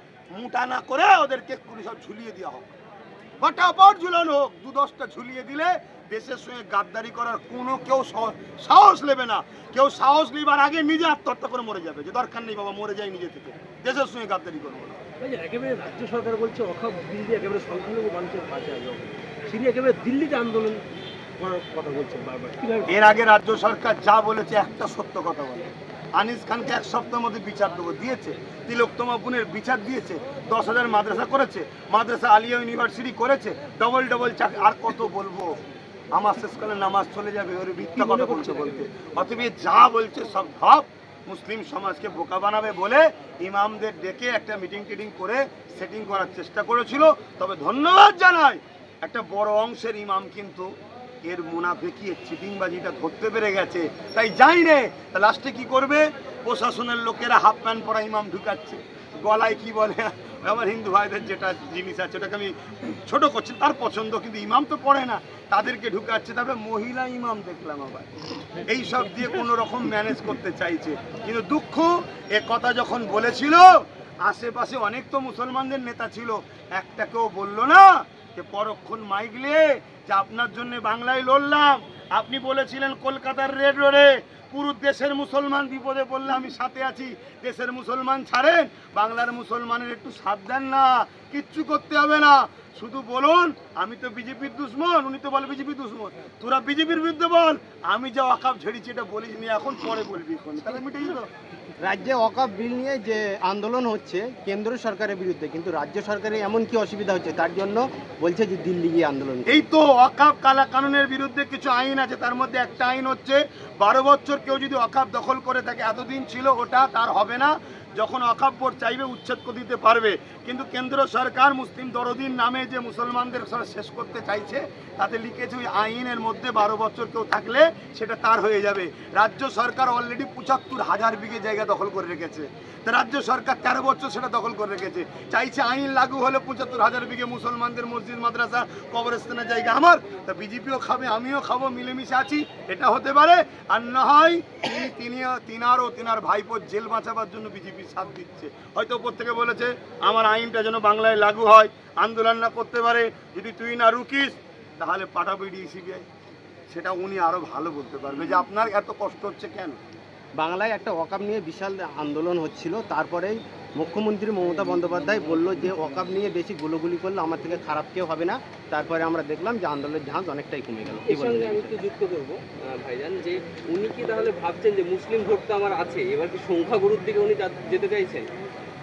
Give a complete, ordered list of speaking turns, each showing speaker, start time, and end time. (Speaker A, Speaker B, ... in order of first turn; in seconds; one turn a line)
Speaker A: 0.3-2.7
Speaker A: 3.4-15.0
Speaker B: 15.2-20.8
Speaker B: 21.4-22.9
Speaker A: 22.9-35.5
Speaker A: 36.1-101.3
Speaker B: 38.0-38.8
Speaker C: 101.8-109.7
Speaker A: 109.5-156.1
Speaker A: 156.7-159.8
Speaker C: 160.4-171.8
Speaker D: 171.1-178.3